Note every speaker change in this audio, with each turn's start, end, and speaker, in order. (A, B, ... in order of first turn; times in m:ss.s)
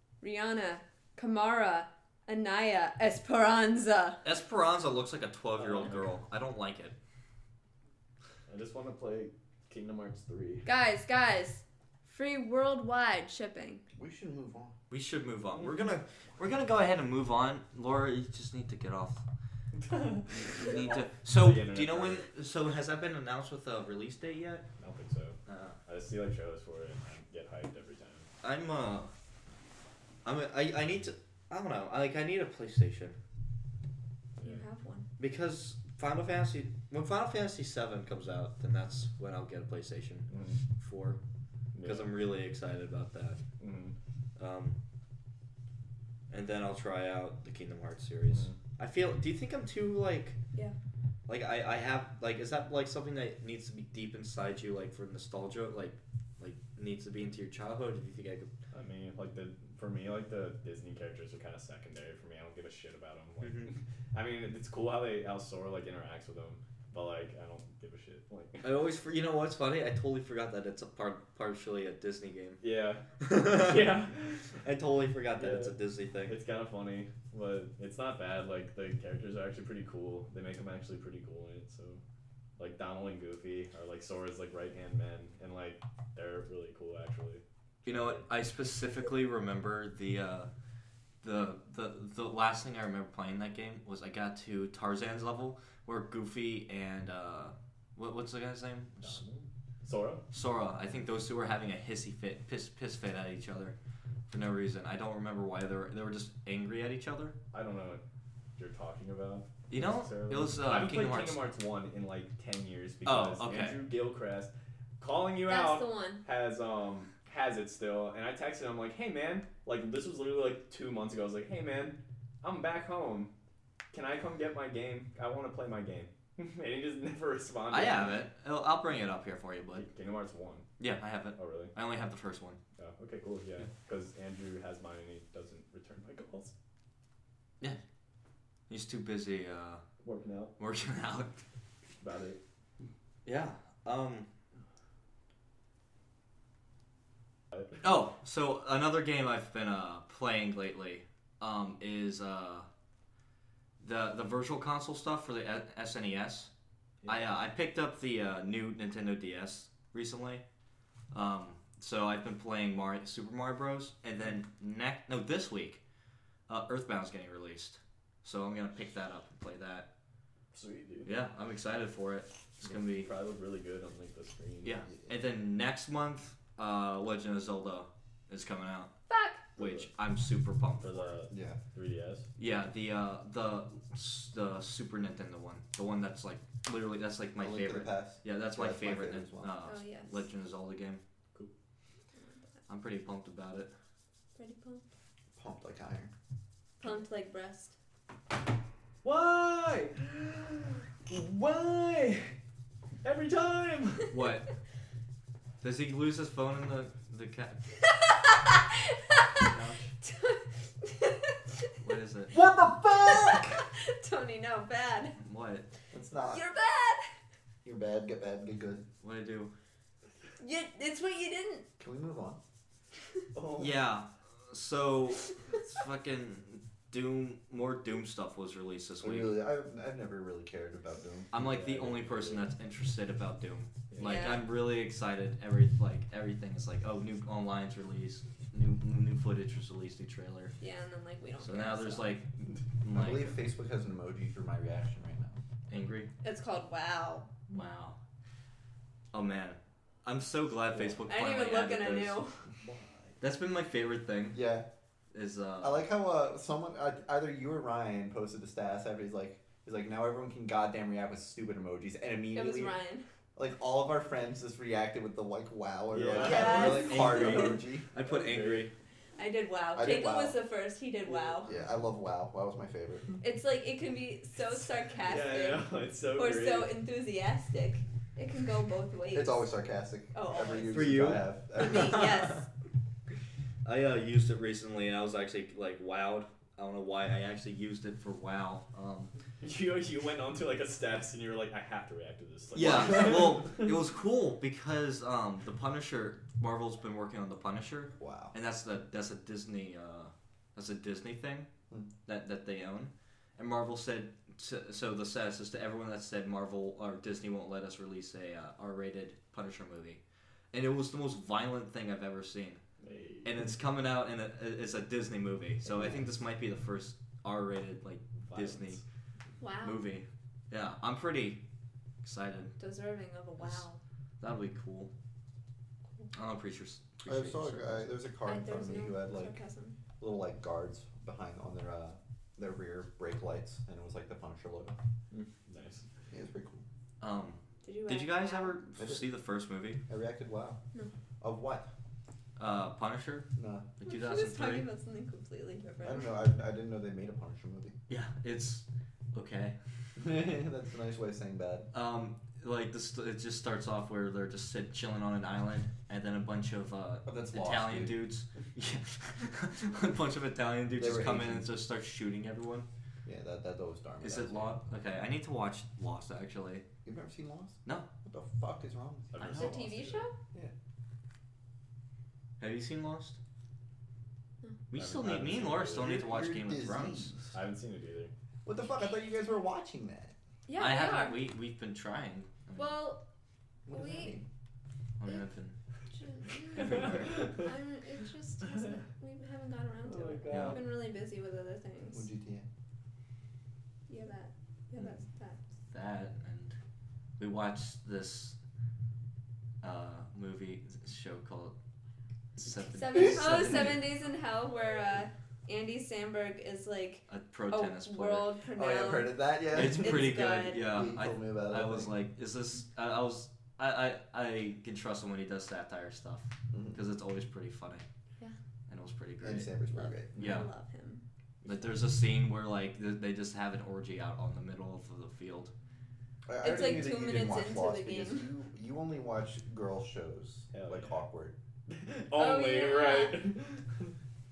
0:00.2-0:04.2 A
0:04.2-0:07.0 B
0:05.6-0:06.1 C
0:08.5-0:10.6 C
0:10.6-0:13.8 A
0:14.0-0:14.8 D
0:14.9-0:19.2 B
0:19.9-0:22.2 C
0:20.3-0:24.6 B
0:24.8-0:28.3 C
0:25.5-0:25.8 B
0:28.4-0:29.1 B
0:30.2-0:33.2 B
0:34.4-0:34.6 C
0:34.4-0:35.1 A
0:35.2-0:40.3 B
0:40.3-0:40.6 C
0:40.8-0:41.2 B
0:41.7-0:42.2 C
0:41.8-0:43.4 B
0:43.6-0:43.9 C
0:44.4-0:44.8 B
0:46.3-0:50.4 B
0:48.3-0:48.6 C
0:51.3-0:58.5 B
0:58.7-1:08.8 C
1:03.4-1:03.7 B
1:08.6-1:12.6 B
1:12.6-1:14.6 C
1:13.2-1:13.9 B
1:14.6-1:16.4 B
1:15.4-1:22.0 C
1:22.6-1:28.2 C
1:27.8-1:30.5 B
1:31.2-1:39.2 B
1:39.0-1:40.2 C
1:40.3-1:43.8 B
1:44.3-1:47.4 B
1:47.5-1:48.0 C
1:48.6-2:03.3 C
1:49.7-1:51.4 B
1:53.0-1:53.8 B
1:55.5-1:56.2 A
2:03.9-2:08.2 C
2:07.7-2:09.9 B
2:09.8-2:10.7 C
2:10.8-2:12.6 B
2:11.4-2:11.7 C
2:12.8-2:16.5 C
2:18.7-2:19.8 B
2:20.0-2:20.5 C
2:20.6-2:21.4 B
2:22.0-2:22.4 C
2:23.2-2:24.3 B
2:27.5-2:27.8 C
2:27.8-2:32.7 B
2:33.8-2:36.5 B
2:37.0-2:40.4 B
2:41.1-2:45.8 B
2:46.5-2:49.9 B
2:50.5-2:51.1 C
2:51.0-2:53.1 B
2:52.6-2:54.7 C
2:54.6-2:58.9 B
2:59.1-2:59.5 A
2:59.6-2:59.9 C
2:59.6-3:01.2 B
3:00.8-3:02.2 C
3:01.3-3:01.6 D
3:02.4-3:11.0 B
3:07.4-3:09.5 D
3:09.6-3:10.2 A
3:12.7-3:13.7 B
3:14.4-3:14.8 A
3:15.4-3:16.1 D
3:16.8-3:17.7 A
3:19.0-3:22.4 C
3:23.0-3:24.1 C
3:24.1-3:24.5 B
3:25.6-3:27.6 B
3:27.8-3:31.7 A
3:29.4-3:29.9 B
3:31.8-3:32.4 B
3:32.3-3:33.6 D
3:33.0-3:35.2 A
3:35.2-3:35.6 B
3:35.9-3:36.4 D
3:36.3-3:37.0 A
3:37.6-3:38.8 D
3:39.0-3:39.5 B
3:40.4-3:41.6 A
3:41.8-3:42.4 D
3:43.3-3:43.7 D
3:43.6-3:49.4 B
3:49.0-3:51.3 D
3:51.3-4:00.5 B
3:51.4-3:52.5 C
3:53.9-3:54.2 C
3:54.0-3:54.5 A
4:00.6-4:02.1 A
4:01.4-4:03.4 B
4:02.9-4:05.4 D
4:05.7-4:06.1 B
4:06.2-4:07.3 A
4:07.5-4:08.0 B
4:09.1-4:12.2 B
4:11.1-4:12.4 A
4:12.6-4:13.1 D
4:13.2-4:14.4 B
4:14.3-4:14.7 D
4:15.1-4:15.8 B
4:15.6-4:22.8 D
4:22.3-4:23.0 A
4:23.4-4:27.8 D
4:25.9-4:28.7 C
4:26.2-4:27.6 A
4:26.2-4:28.7 B
4:29.2-4:31.5 A
4:29.7-4:30.4 D
4:31.1-4:31.5 C
4:31.4-4:33.1 D
4:33.2-4:39.5 A
4:35.0-4:36.7 C
4:39.1-4:42.0 D
4:40.1-4:41.0 A
4:40.7-4:42.4 B
4:41.6-4:42.5 A
4:43.6-4:49.1 B
4:49.4-4:53.7 C
4:52.5-5:01.5 B
4:52.6-4:53.4 D
4:58.0-4:58.3 D
5:02.0-5:10.0 B
5:10.5-5:12.6 B
5:12.8-5:13.3 C
5:13.2-5:18.8 B
5:18.2-5:18.8 C
5:19.4-5:19.9 A
5:19.6-5:21.4 B
5:22.0-5:22.6 B
5:22.6-5:23.8 A
5:23.4-5:23.7 B
5:24.2-5:24.9 B
5:26.1-5:28.0 B
5:27.0-5:29.4 D
5:28.2-5:29.8 A
5:30.0-5:34.8 D
5:35.1-5:35.8 C
5:36.1-5:36.6 D
5:37.0-5:39.8 B
5:37.6-5:38.6 A
5:38.8-5:39.0 D
5:39.9-5:40.6 D
5:41.2-5:41.7 D
5:42.4-5:44.7 B
5:43.4-5:43.7 D
5:43.9-5:46.2 A
5:45.8-5:47.8 D
5:47.9-5:49.6 B
5:50.0-5:51.7 D
5:51.7-6:02.7 B
5:57.0-5:58.1 D
6:00.8-6:01.5 D
6:03.0-6:04.6 D
6:04.0-6:06.7 B
6:06.8-6:09.4 D
6:09.1-6:10.1 C
6:09.2-6:09.6 B
6:09.4-6:10.1 A
6:12.4-6:13.2 B
6:14.7-6:17.1 B
6:14.7-6:16.0 C
6:15.8-6:17.4 D
6:17.3-6:18.1 C
6:18.4-6:20.1 D
6:20.5-6:21.2 A
6:20.6-6:22.8 B
6:22.6-6:23.0 A
6:23.7-6:24.3 D
6:23.7-6:24.2 A
6:25.0-6:25.6 B
6:25.9-6:32.1 A
6:26.5-6:27.3 B
6:26.6-6:27.5 C
6:29.8-6:30.7 C
6:30.3-6:30.6 B
6:31.9-6:32.5 D
6:33.9-6:35.4 A
6:35.7-6:36.6 B
6:37.2-6:38.4 B
6:39.6-6:41.6 B
6:42.4-6:43.8 B
6:42.7-6:50.7 A
6:47.1-6:48.3 B
6:48.5-6:52.0 D
6:49.5-6:57.9 B
6:56.5-6:56.8 D
6:58.7-6:59.5 B
6:59.2-7:00.2 D
6:59.7-7:01.0 A
7:00.2-7:00.5 B
7:01.4-7:01.8 C
7:01.4-7:05.5 B
7:06.2-7:11.3 D
7:06.4-7:08.3 A
7:10.5-7:11.0 C
7:11.7-7:13.9 C
7:12.2-7:13.2 A